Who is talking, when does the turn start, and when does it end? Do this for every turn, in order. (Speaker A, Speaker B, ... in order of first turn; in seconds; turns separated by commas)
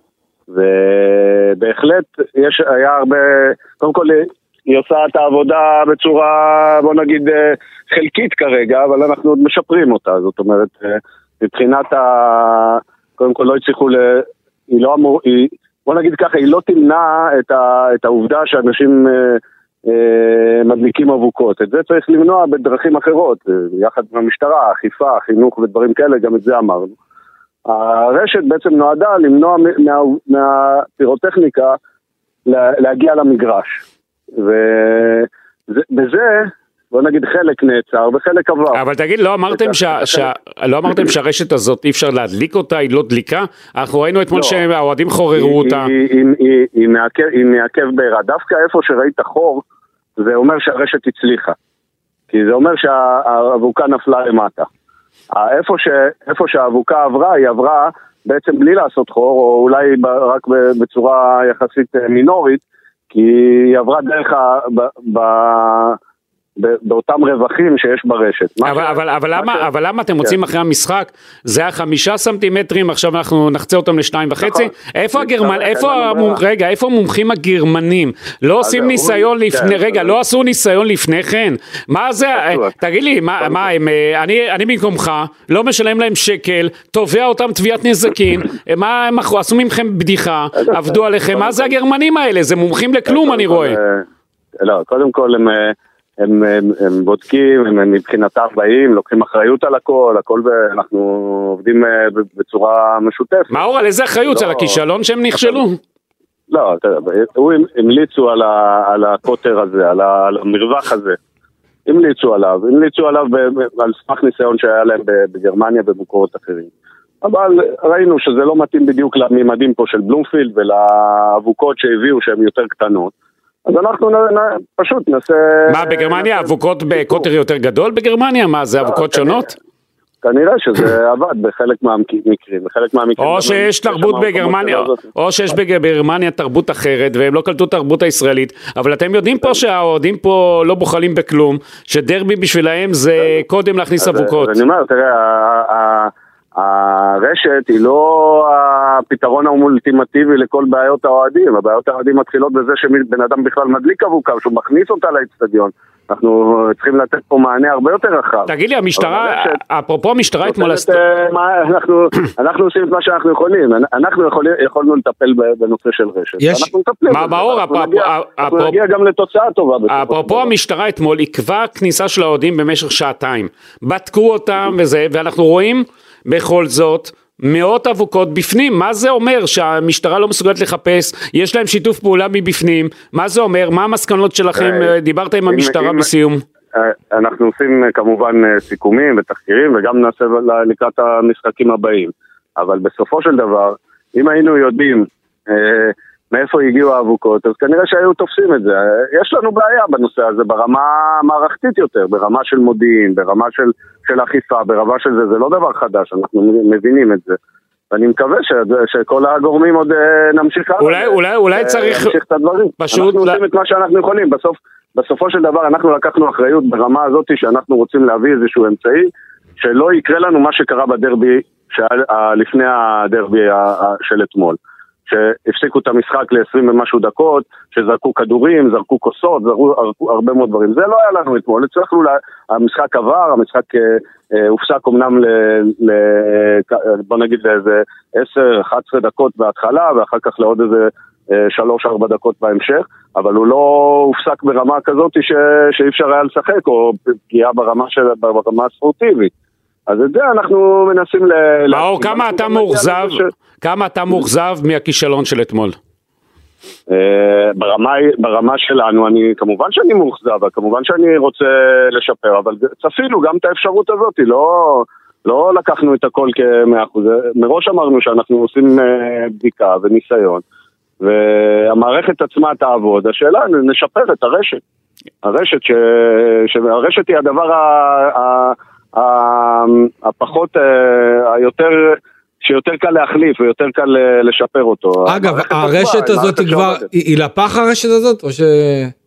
Speaker A: 0.5-26.9, Speaker A: 27.7-31.8, Speaker A: 32.5-33.8, Speaker A: 34.4-38.8, Speaker B: 38.7-45.9, Speaker A: 39.5-40.3, Speaker A: 44.3-44.6, Speaker A: 45.4-49.6, Speaker A: 50.2-51.5, Speaker A: 52.3-54.7, Speaker A: 55.3-66.0, Speaker A: 66.6-69.7, Speaker B: 68.6-93.8, Speaker A: 74.4-76.4, Speaker A: 78.6-80.2, Speaker A: 82.3-82.7, Speaker A: 83.4-83.7, Speaker A: 90.7-91.7, Speaker A: 93.1-94.0, Speaker A: 94.6-103.5, Speaker B: 103.5-105.8, Speaker A: 104.3-104.8, Speaker A: 106.5-111.2, Speaker A: 111.9-116.7, Speaker A: 117.2-123.1, Speaker A: 123.7-127.3, Speaker B: 125.7-129.5, Speaker A: 128.8-129.4, Speaker A: 130.2-135.1, Speaker B: 133.2-144.6, Speaker A: 144.0-159.6, Speaker B: 158.5-161.0, Speaker A: 160.5-170.5, Speaker C: 166.4-166.7, Speaker B: 167.1-168.8, Speaker B: 169.9-186.4, Speaker A: 184.6-184.9, Speaker A: 185.5-186.1, Speaker A: 186.8-207.4, Speaker A: 207.9-219.1, Speaker B: 210.8-212.2, Speaker B: 212.8-213.4, Speaker A: 219.6-224.6, Speaker A: 225.1-249.3, Speaker A: 249.9-253.3, Speaker B: 251.7-255.8, Speaker A: 256.9-270.4, Speaker A: 271.0-274.6, Speaker A: 275.2-286.8, Speaker C: 285.1-288.9